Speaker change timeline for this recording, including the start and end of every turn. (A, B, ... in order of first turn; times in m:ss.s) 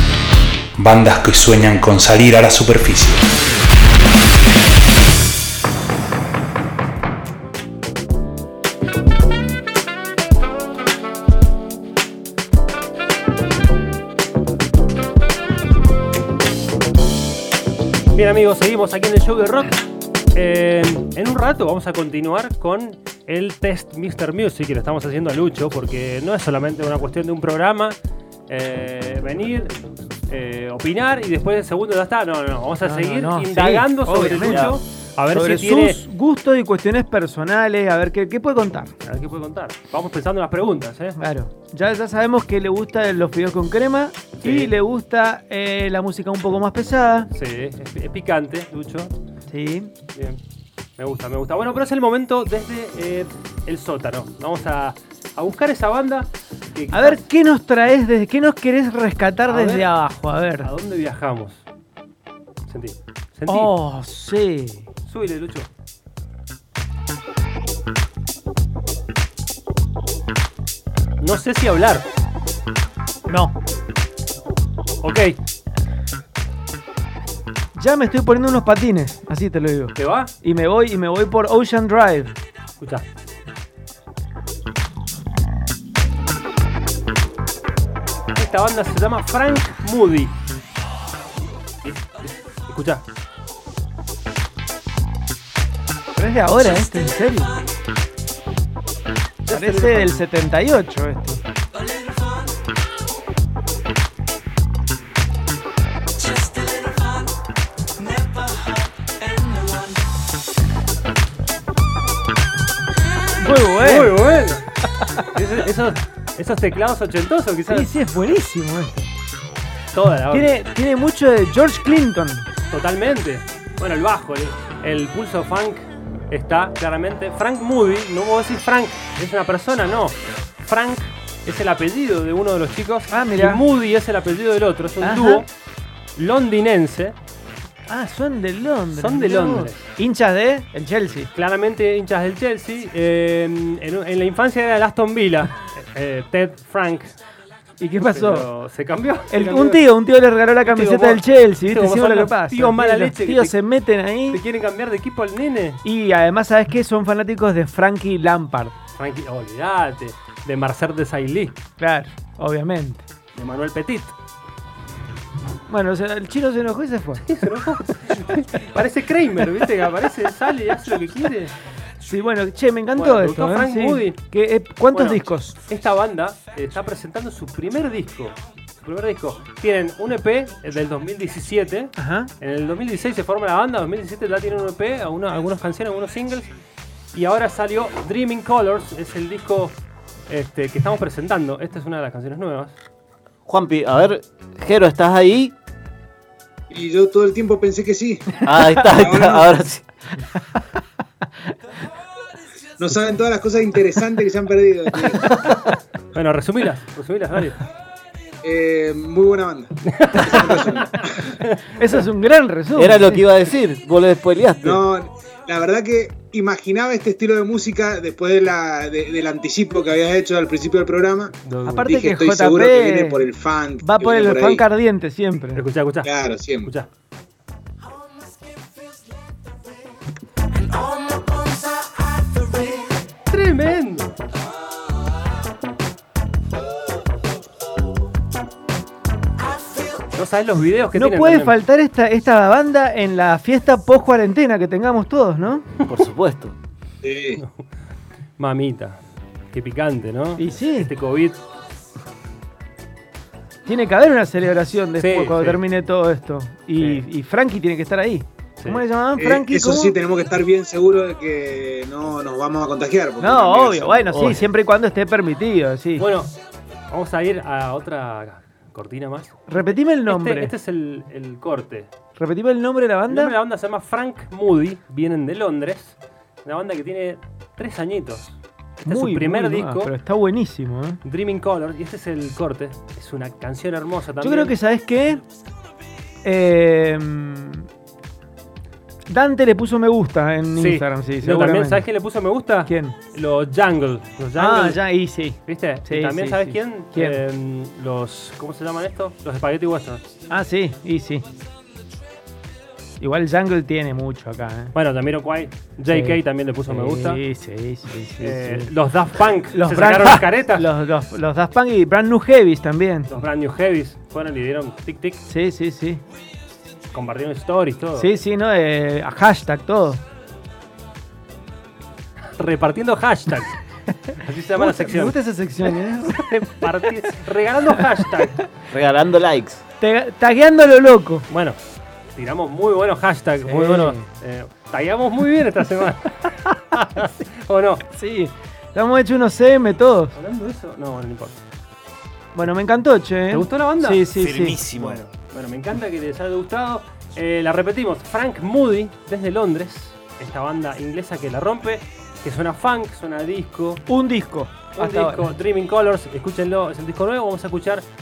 0:00.8-0:03.3 A
0:18.1-0:19.8 B
0:20.3-0:28.0 B
0:28.5-0:29.8 B
0:30.3-0:36.0 B
0:32.8-0:34.8 C
0:34.4-0:34.7 D
0:35.3-0:38.9 C
0:39.0-0:41.2 B
0:41.2-0:47.3 C
0:44.4-0:44.8 B
0:47.3-0:49.1 B
0:49.5-0:49.9 C
0:50.1-0:50.4 B
0:51.0-0:57.3 B
0:56.9-1:00.7 C
0:59.5-0:59.9 B
1:00.6-1:01.6 B
1:02.7-1:03.8 B
1:03.4-1:04.9 C
1:05.0-1:05.7 B
1:11.2-1:12.0 B
1:13.3-1:13.5 C
1:15.0-1:15.4 B
1:17.7-1:22.3 C
1:19.9-1:20.3 B
1:22.8-1:23.0 B
1:28.3-1:30.3 B
1:31.8-1:33.0 B
1:36.2-1:37.6 C
1:39.5-1:40.2 B
1:39.5-1:41.4 C
1:53.4-1:54.2 C
1:53.4-1:57.9 B
1:57.7-1:59.0 C
1:59.9-2:00.5 B
2:00.3-2:02.5 C
2:02.7-2:15.5 B
2:13.1-2:13.6 C
2:15.0-2:15.4 C
2:16.2-2:17.2 B
2:17.9-2:21.3 C
2:18.9-2:19.9 B
2:21.3-2:27.2 B
2:27.8-2:28.5 C
2:28.1-2:29.8 B
2:29.3-2:34.4 C
2:30.6-2:33.5 B
2:34.3-2:35.8 B
2:35.8-2:38.7 C
2:39.0-2:41.6 B
2:41.8-2:43.0 C
2:43.3-2:44.1 B
2:45.7-2:47.2 C
2:47.2-2:51.5 B
2:52.0-2:55.5 C
2:52.9-2:54.2 B
2:54.9-3:06.5 B
3:02.0-3:02.3 C
3:07.1-3:09.8 B
3:10.3-3:12.8 B
3:13.5-3:15.5 D
3:16.7-3:19.6 E
3:18.4-3:19.8 D
3:22.8-3:25.3 E
3:26.1-3:27.6 B
3:28.4-3:31.3 E
3:30.0-3:31.6 B
3:31.8-3:33.2 C
3:32.8-3:34.8 D
3:34.6-3:44.6 E
3:41.4-3:41.9 B
3:41.7-3:43.2 C
3:43.8-3:45.6 C
3:45.5-3:46.1 B
3:46.0-3:46.7 E
3:53.3-3:54.2 B
4:00.1-4:01.6 B
4:00.9-4:05.7 C
4:05.8-4:06.5 D
4:07.0-4:07.4 E
4:07.4-4:07.6 B
4:08.4-4:09.0 B
4:09.5-4:11.4 B
4:10.4-4:10.9 C
4:13.7-4:20.0 C
4:15.0-4:15.6 B
4:16.8-4:17.0 B
4:19.2-4:24.2 E
4:23.2-4:26.1 C
4:24.1-4:24.4 D
4:26.0-4:26.4 B
4:26.9-4:31.9 B
4:29.5-4:30.5 C
4:32.2-4:33.4 C
4:33.1-4:39.9 B
4:38.9-4:41.0 C
4:41.0-4:44.6 B
4:44.2-4:45.2 C
4:46.2-4:47.7 C
4:49.1-4:51.9 C
4:50.6-4:54.8 B
4:52.7-4:53.0 C
4:54.4-4:57.2 C
4:55.5-5:00.0 B
5:00.3-5:01.2 C
5:03.0-5:04.8 C
5:04.7-5:07.2 B
5:05.9-5:08.7 C
5:08.2-5:10.7 B
5:09.5-5:13.1 C
5:13.1-5:15.2 B
5:15.3-5:16.0 C
5:16.9-5:18.1 B
5:18.0-5:20.0 C
5:22.3-5:23.6 B
5:24.1-5:25.2 B
5:24.6-5:26.9 C
5:26.6-5:28.4 B
5:28.7-5:29.6 D
5:29.8-5:31.3 C
5:31.3-5:31.6 B
5:32.2-5:37.8 B
5:33.4-5:34.1 C
5:37.9-5:40.2 C
5:40.2-5:41.4 B
5:42.4-5:44.6 C
5:43.3-5:44.0 B
5:44.2-5:44.9 A
5:44.3-5:45.0 D
5:44.8-5:53.8 B
5:53.9-5:55.3 C
5:54.8-5:57.8 B